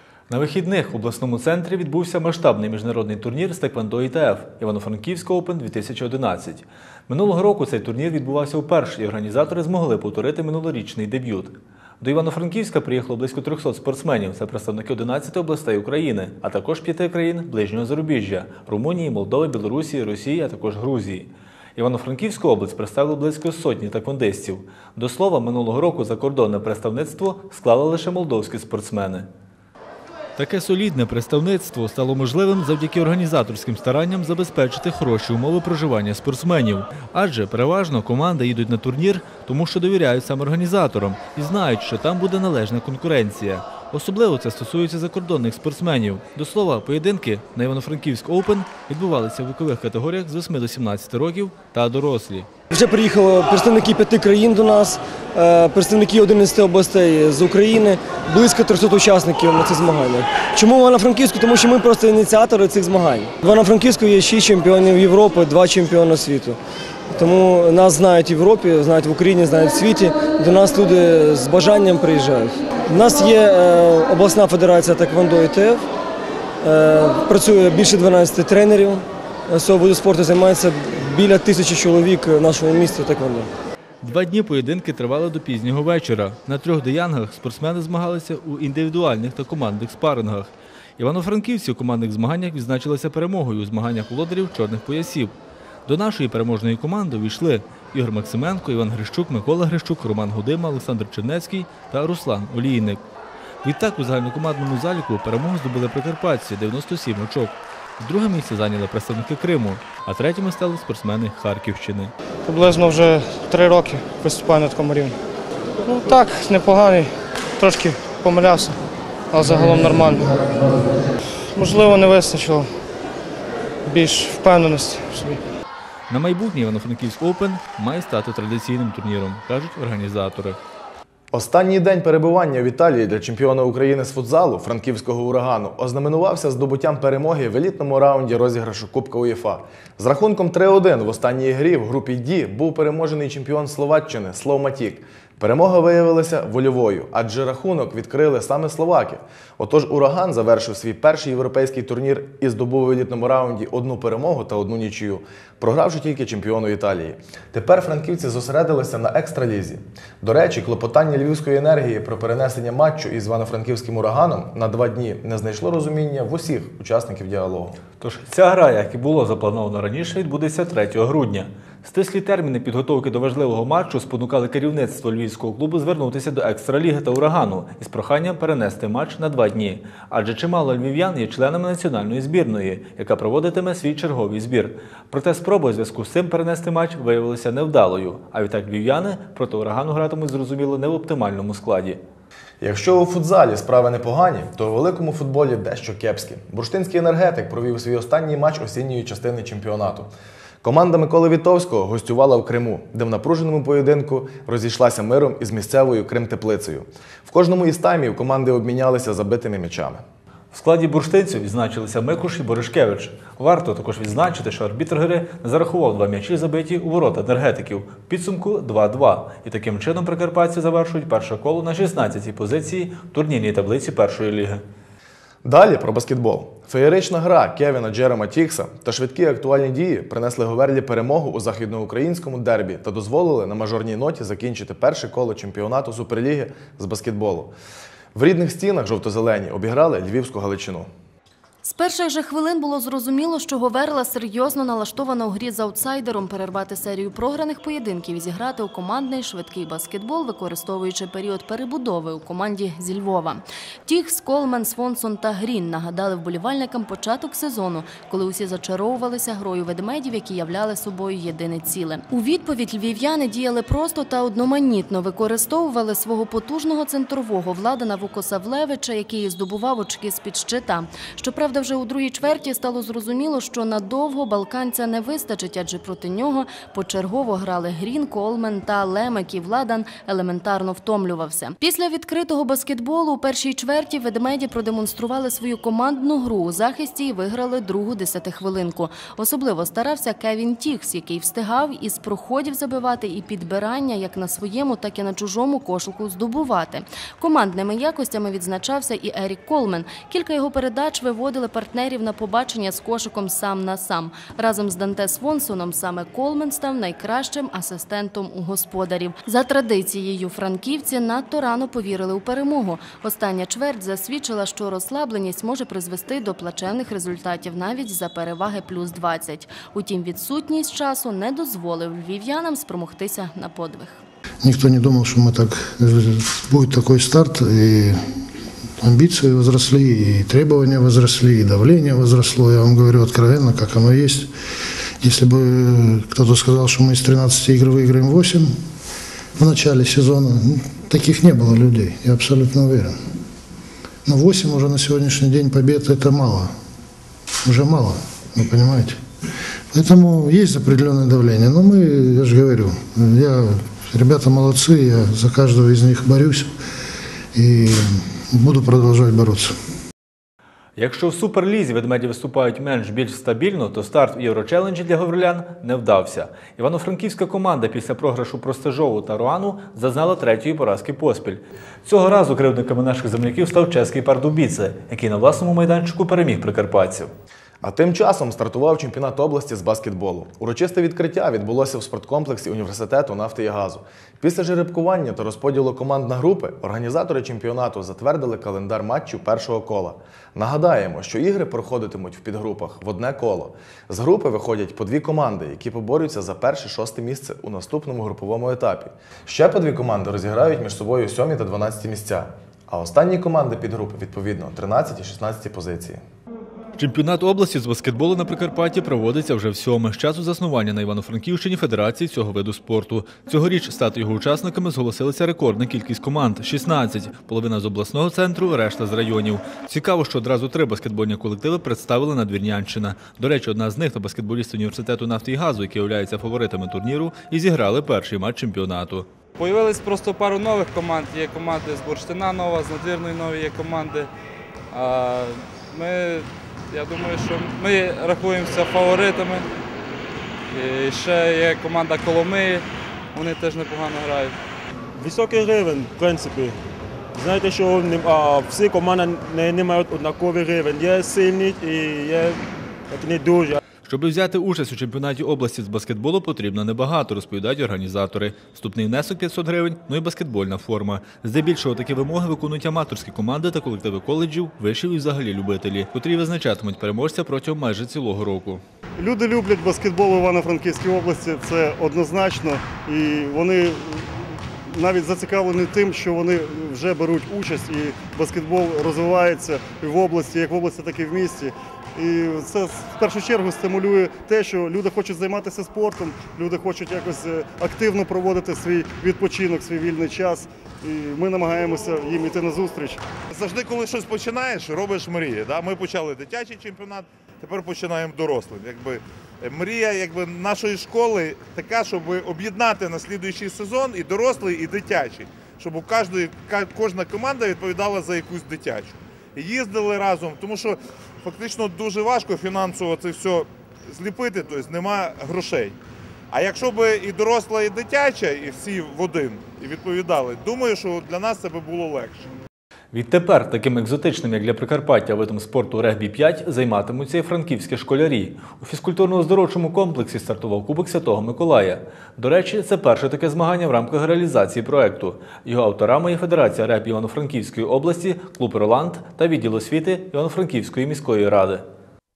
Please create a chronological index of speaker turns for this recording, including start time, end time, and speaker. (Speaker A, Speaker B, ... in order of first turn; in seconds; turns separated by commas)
Speaker A: 0.3-29.3, Speaker A: 30.4-52.5, Speaker B: 52.7-66.6, Speaker B: 67.1-75.9, Speaker B: 76.6-83.5, Speaker A: 84.0-95.3, Speaker A: 95.9-103.0, Speaker A: 103.6-112.1, Speaker C: 112.5-115.2, Speaker C: 115.8-118.8, Speaker C: 119.3-120.4, Speaker C: 121.5-122.7, Speaker C: 123.9-125.4, Speaker A: 126.1-130.6, Speaker D: 131.3-167.8, Speaker A: 168.0-192.0, Speaker D: 192.6-200.1, Speaker D: 200.6-210.0, Speaker A: 210.5-224.6, Speaker D: 225.4-237.5, Speaker D: 238.2-240.9, Speaker E: 241.6-324.0, Speaker F: 324.4-328.2, Speaker F: 328.8-334.3, Speaker F: 335.0-338.6, Speaker F: 339.4-343.0, Speaker F: 344.1-346.5, Speaker F: 347.4-349.0, Speaker F: 349.7-356.6, Speaker F: 357.3-359.6, Speaker A: 360.8-377.1, Speaker D: 377.6-406.0, Speaker A: 406.8-429.1, Speaker G: 429.4-434.1, Speaker G: 434.7-439.5, Speaker G: 440.5-444.4, Speaker H: 445.0-446.6, Speaker H: 447.1-453.6, Speaker A: 453.9-468.6, Speaker I: 469.0-493.0, Speaker J: 493.3-515.8, Speaker J: 516.3-522.3, Speaker A: 522.9-541.6